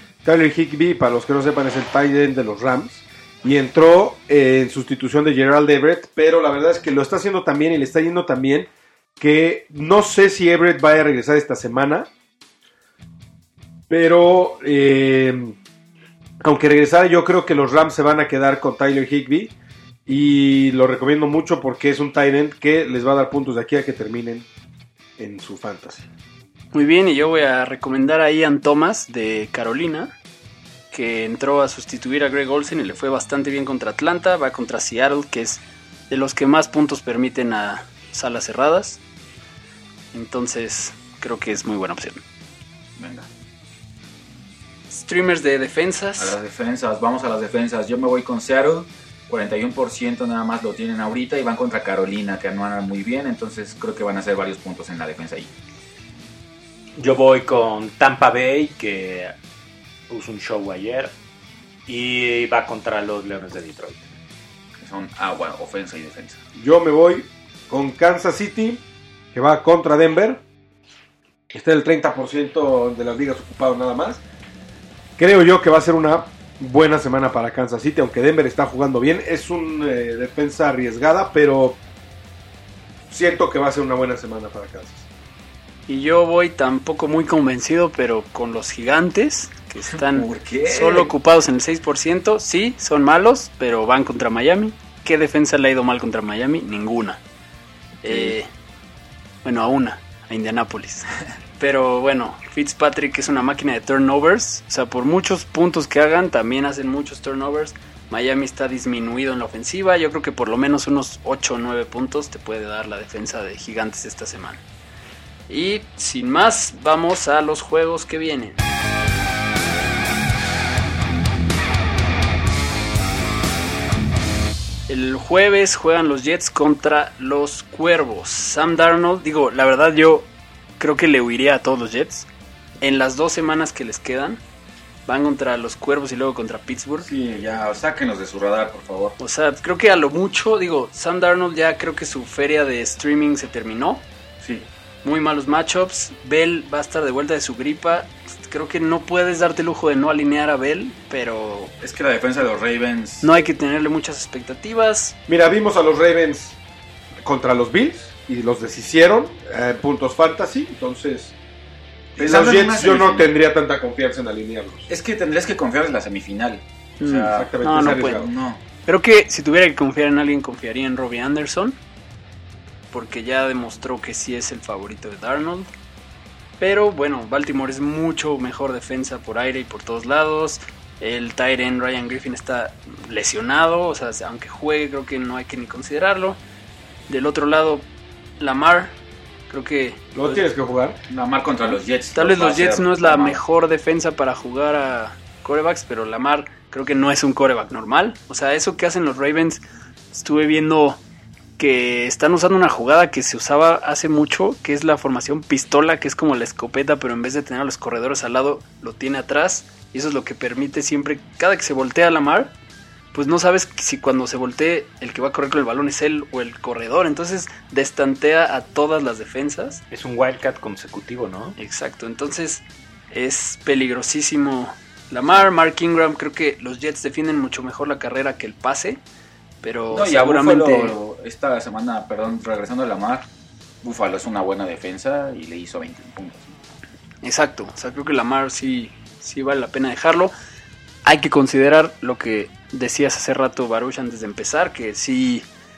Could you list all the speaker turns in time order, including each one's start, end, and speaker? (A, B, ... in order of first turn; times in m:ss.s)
0:00.2-0:12.1 A
0:13.9-0:15.6 A
0:16.4-0:19.5 A
0:20.1-0:24.5 A
0:25.2-0:26.1 A
0:26.7-0:30.1 B
0:30.9-0:39.0 B
0:40.1-0:42.2 B
0:43.0-0:43.3 C
0:44.9-0:46.4 B
0:46.2-0:55.5 C
0:57.0-0:59.3 D
1:00.1-1:01.1 D
1:01.9-1:04.1 D
1:04.8-1:06.4 C
1:06.6-1:08.8 A
1:09.3-1:10.4 A
1:11.5-1:14.2 A
1:15.2-1:21.8 A
1:23.1-1:25.1 A
1:25.9-1:37.2 B
1:29.8-1:31.1 C
1:38.0-1:38.5 B
1:38.1-1:38.3 C
1:39.4-1:54.6 B
1:55.5-1:58.6 B
2:04.9-2:12.3 B
2:12.8-2:14.4 B
2:15.1-2:17.1 B
2:17.0-2:19.2 C
2:19.2-2:24.0 B
2:24.4-2:24.7 C
2:25.0-2:31.8 B
2:31.8-2:33.3 C
2:33.2-2:35.2 B
2:35.3-2:36.6 A
2:37.2-2:41.4 A
2:42.2-2:43.3 C
2:42.2-2:44.9 A
2:44.9-2:48.6 C
2:47.0-2:48.2 B
2:47.3-2:48.3 A
2:48.9-2:51.8 B
2:52.9-2:55.7 B
2:56.6-3:06.4 B
3:07.1-3:07.9 B
3:08.4-3:08.9 B
3:09.5-3:10.4 B
3:10.1-3:11.0 A
3:11.1-3:13.4 C
3:12.2-3:19.6 B
3:20.1-3:21.0 B
3:21.6-3:32.5 B
3:33.1-3:39.8 B
3:39.9-3:41.6 D
3:41.6-3:49.0 B
3:49.6-3:51.0 B
3:49.9-3:53.3 C
3:53.8-3:56.5 C
3:57.2-4:00.3 B
4:01.0-4:05.5 B